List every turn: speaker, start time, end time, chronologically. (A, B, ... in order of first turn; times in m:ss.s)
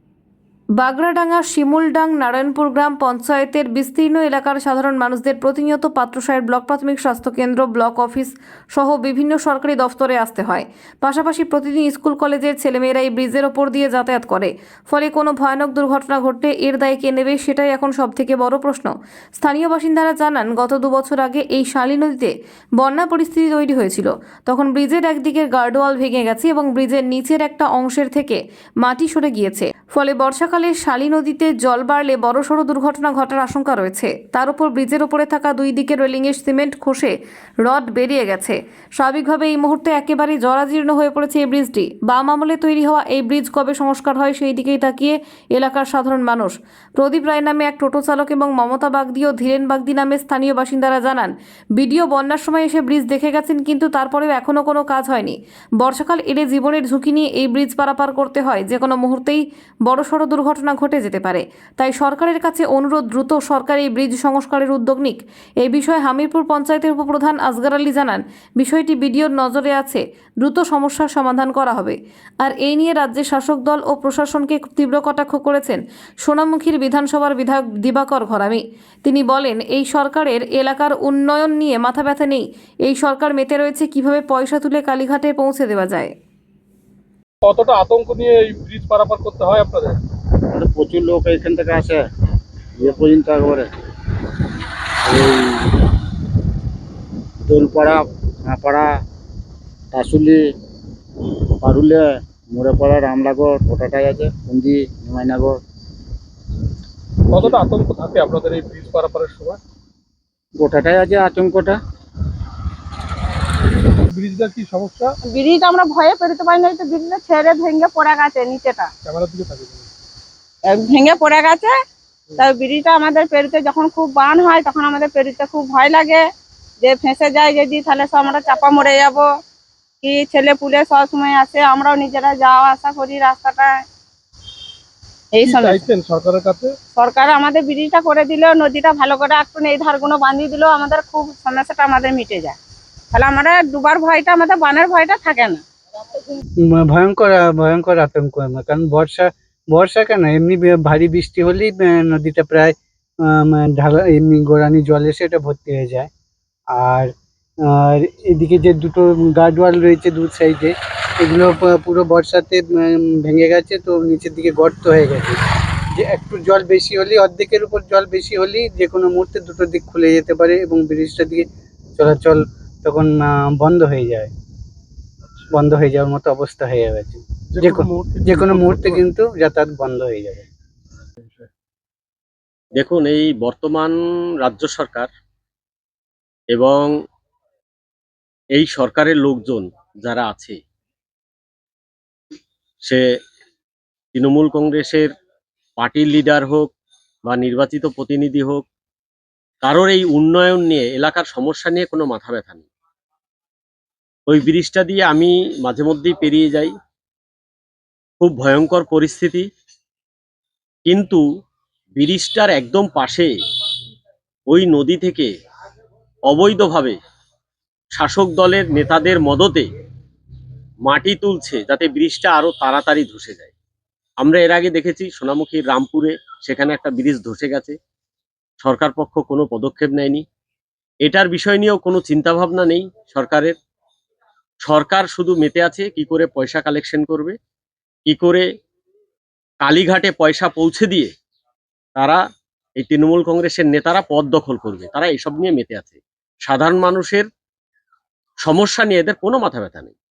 0:00.8-1:26.1 A
1:27.4-1:30.0 B
1:30.5-1:32.0 C
1:32.8-1:33.7 C
1:35.0-1:35.7 C
1:37.5-1:38.8 C
1:39.9-1:40.4 C
1:41.6-1:42.0 C
1:42.5-1:45.6 C
1:47.3-1:49.6 B
1:50.6-1:51.7 C
1:54.0-1:55.1 B
1:55.3-1:58.9 D
1:59.0-1:59.9 B
2:00.7-2:01.7 D
2:02.4-2:06.2 D
2:06.8-2:09.2 D
2:10.0-2:13.8 D
2:15.3-2:15.8 D
2:15.4-2:16.8 B
2:17.0-2:22.6 D
2:23.1-2:25.6 D
2:26.6-2:36.1 E
2:36.7-2:37.1 E
2:37.6-2:45.4 E
2:46.0-2:51.4 E
2:52.0-2:54.3 E
2:55.5-3:00.5 E
2:57.5-2:59.0 B
3:01.2-3:01.5 B
3:02.8-3:05.1 F
3:06.5-3:06.9 F
3:08.6-3:10.6 F
3:14.1-3:15.1 F
3:15.8-3:16.7 F
3:17.2-3:18.6 F
3:19.6-3:22.6 F
3:24.3-3:26.7 F
3:28.2-3:29.5 F
3:30.8-3:31.2 F
3:32.0-3:33.3 F
3:34.5-3:35.3 F
3:36.3-3:37.0 F
3:38.0-3:39.6 F
3:40.8-3:43.5 F
3:44.2-3:47.8 F
3:48.6-3:50.2 F
3:51.0-3:53.6 F
3:54.6-3:57.4 F
3:58.1-3:58.4 F
3:59.6-4:01.1 F
4:02.8-4:07.2 F
4:08.4-4:09.9 F